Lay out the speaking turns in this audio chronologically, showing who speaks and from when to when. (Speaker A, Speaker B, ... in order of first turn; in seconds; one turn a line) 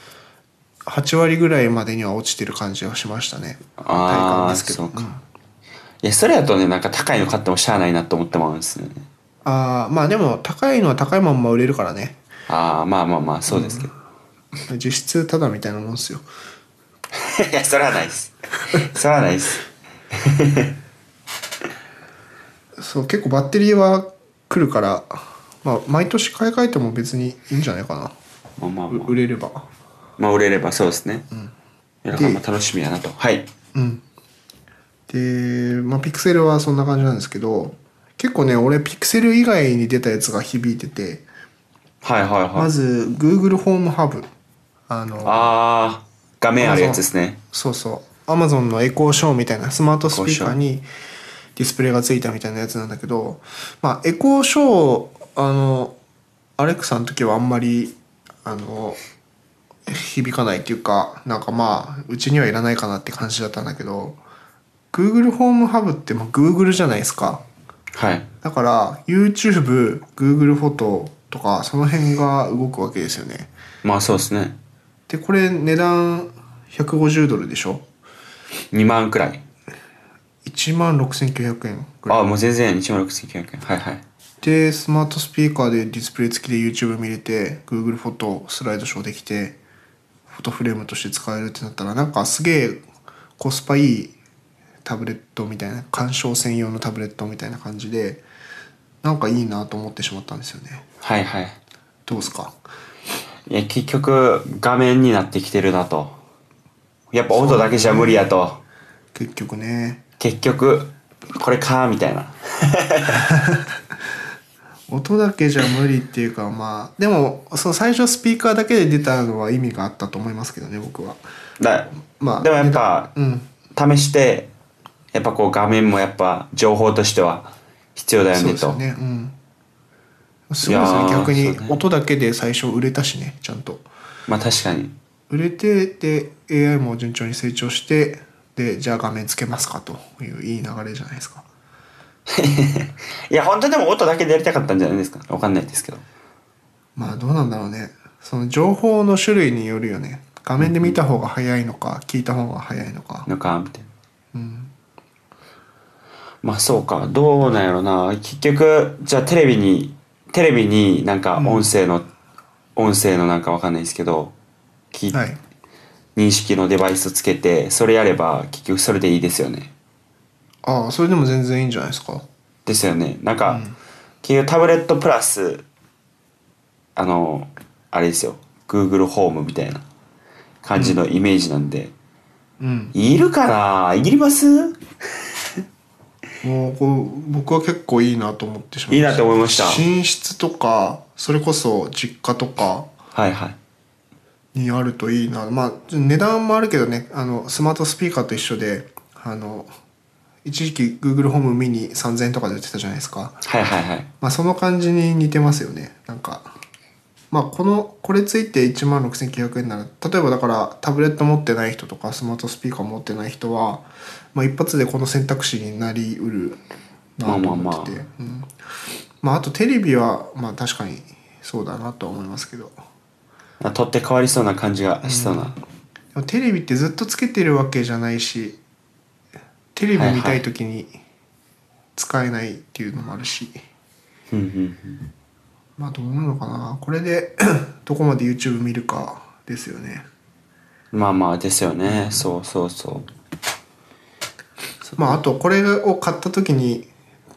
Speaker A: 0.9-5.2
Speaker B: 3.8-5.1
Speaker B: 6.0-9.1
Speaker A: 9.4-12.2
Speaker B: 12.5-13.9
Speaker A: 13.5-13.9
Speaker A: 14.7-16.2
Speaker B: 17.1-20.8
Speaker A: 22.8-28.1
Speaker B: 28.6-29.2
Speaker A: 28.9-29.7
Speaker B: 30.2-31.2
Speaker B: 32.0-33.5
Speaker A: 32.1-32.4
Speaker A: 33.7-34.0
Speaker A: 35.1-41.3
Speaker B: 42.0-42.7
Speaker A: 42.6-44.3
Speaker A: 44.9-45.5
Speaker B: 45.2-47.4
Speaker A: 46.6-50.9
Speaker B: 50.1-50.6
Speaker A: 51.6-56.0
Speaker A: 56.6-59.0
Speaker A: 59.9-64.2
Speaker A: 64.9-67.4
Speaker B: 68.0-68.3
Speaker A: 68.4-73.5
Speaker B: 73.8-74.6
Speaker A: 75.1-77.8
Speaker B: 78.7-79.4
Speaker A: 80.4-82.2
Speaker B: 82.1-84.0
Speaker A: 84.4-89.6
Speaker A: 90.3-92.8
Speaker A: 93.4-94.2
Speaker A: 94.8-98.2
Speaker A: 99.0-100.8
Speaker B: 101.0-101.6
Speaker A: 102.1-102.6
Speaker B: 103.5-106.2
Speaker B: 107.1-108.6
Speaker A: 107.3-108.2
Speaker A: 109.1-110.0
Speaker B: 110.2-113.3
Speaker A: 113.2-113.8
Speaker A: 114.9-121.2
Speaker B: 121.6-123.1
Speaker A: 122.2-123.5
Speaker B: 123.7-124.5
Speaker B: 125.1-128.8
Speaker A: 128.3-129.4
Speaker A: 130.5-133.9
Speaker B: 130.6-131.8
Speaker B: 134.3-134.9
Speaker A: 135.3-141.4
Speaker B: 142.3-146.0
Speaker A: 147.0-153.3
Speaker B: 150.6-151.0
Speaker B: 153.3-153.9
Speaker A: 154.3-154.7
Speaker B: 156.4-162.1
Speaker A: 161.4-161.7
Speaker B: 162.8-164.3
Speaker B: 164.9-165.2
Speaker A: 165.1-165.4
Speaker B: 166.2-169.7
Speaker A: 170.6-172.3
Speaker B: 172.7-173.7
Speaker A: 173.5-173.8
Speaker B: 174.2-175.7
Speaker B: 177.0-179.8
Speaker B: 180.6-181.9
Speaker A: 182.6-182.9
Speaker B: 182.9-184.8
Speaker A: 186.4-192.9
Speaker B: 188.9-189.8
Speaker B: 193.2-193.6
Speaker A: 194.5-199.7
Speaker A: 200.4-203.4
Speaker B: 203.4-204.1
Speaker A: 204.2-206.5
Speaker A: 207.3-216.6
Speaker A: 217.2-218.5
Speaker B: 217.2-218.0
Speaker A: 219.2-222.8
Speaker B: 223.6-225.6
Speaker A: 225.0-225.6
Speaker A: 226.1-228.6
Speaker A: 229.8-231.0
Speaker B: 230.0-230.4
Speaker A: 232.0-233.6
Speaker B: 234.3-235.1
Speaker A: 235.8-240.1
Speaker B: 240.9-243.1
Speaker A: 241.9-242.2
Speaker B: 244.9-245.2
Speaker A: 245.0-246.9